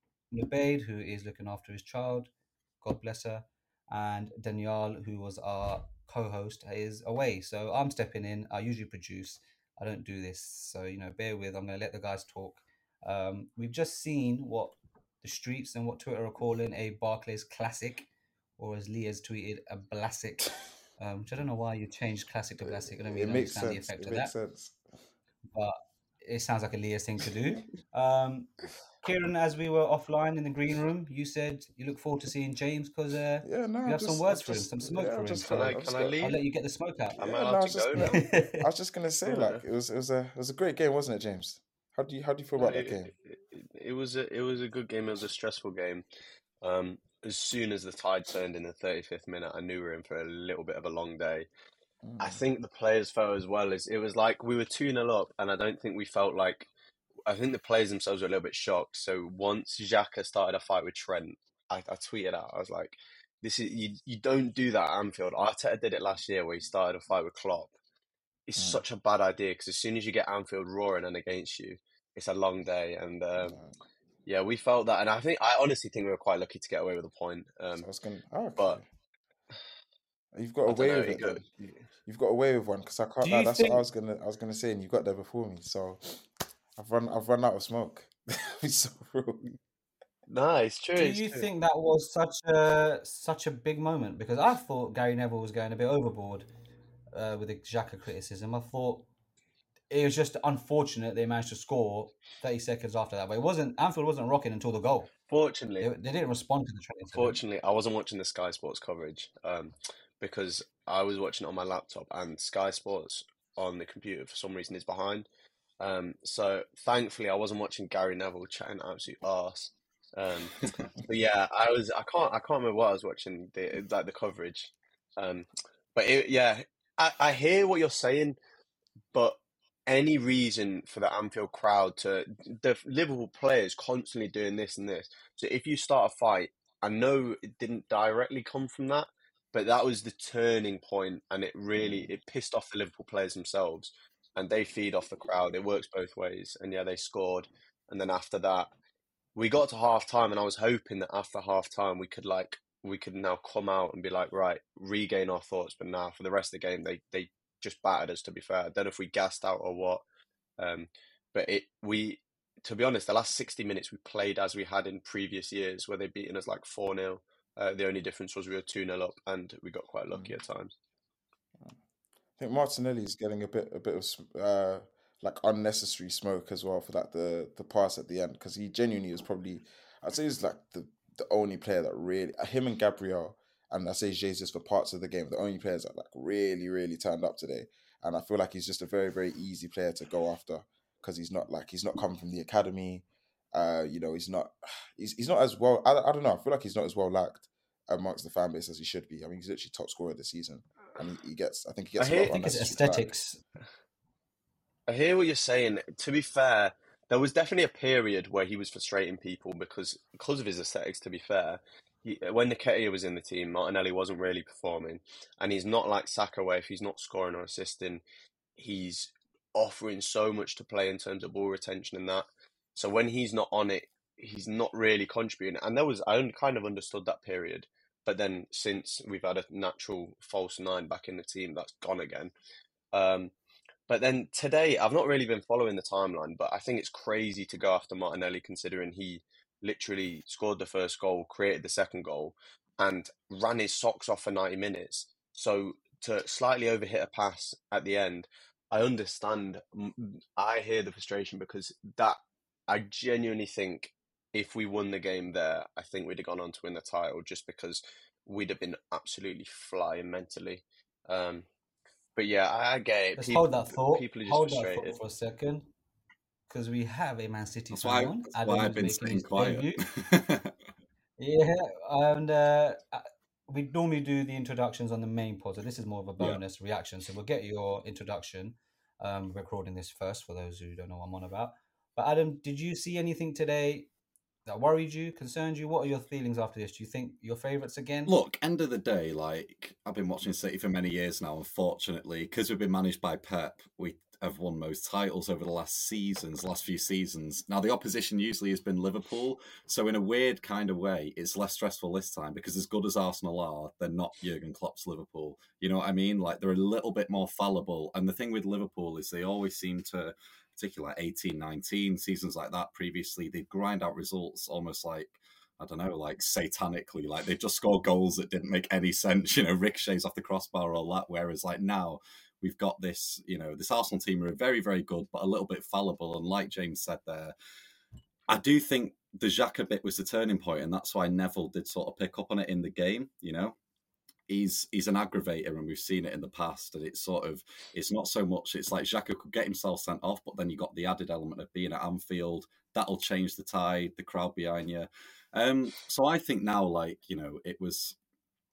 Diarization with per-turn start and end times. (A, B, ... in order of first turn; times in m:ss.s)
0:00.3-0:02.3 A
0:02.8-0:24.3 A
0:22.6-0:24.8 B
0:25.5-0:37.2 A
0:33.4-0:36.2 B
0:35.5-0:36.4 C
0:37.1-0:43.1 B
0:37.2-0:38.2 C
0:37.9-0:38.6 A
0:39.2-0:39.6 C
0:42.6-0:46.0 C
0:46.6-0:51.5 C
0:52.0-0:52.4 B
0:52.2-0:56.7 C
0:57.3-1:07.7 C
1:08.5-1:13.6 C
1:08.6-1:08.8 B
1:13.4-1:13.8 B
1:14.2-1:17.9 C
1:17.7-1:18.8 B
1:20.3-1:21.4 B
1:20.6-1:21.8 C
1:22.0-1:26.2 B
1:23.2-1:23.8 A
1:26.8-1:29.4 B
1:30.3-1:31.5 C
1:30.9-1:36.5 A
1:37.1-1:39.1 A
1:39.9-1:45.1 A
1:45.3-1:45.9 C
1:45.8-1:47.4 A
1:47.1-1:55.3 C
1:55.8-2:08.4 C
2:09.1-2:28.7 C
2:21.8-2:22.1 B
2:29.4-2:40.0 C
2:40.6-2:50.7 C
2:52.4-3:23.1 B
3:22.0-3:22.5 C
3:22.4-3:23.4 A
3:24.9-3:38.0 C
3:38.6-3:52.3 C
3:52.9-3:53.3 C
3:53.9-4:12.2 C
4:12.7-4:21.5 C
4:22.2-4:25.0 C
4:23.2-4:25.7 A
4:26.5-4:29.8 A
4:27.7-4:30.5 D
4:31.2-4:43.9 A
4:44.4-4:48.1 A
4:48.0-5:27.3 D
5:28.3-5:33.6 D
5:34.3-5:48.0 D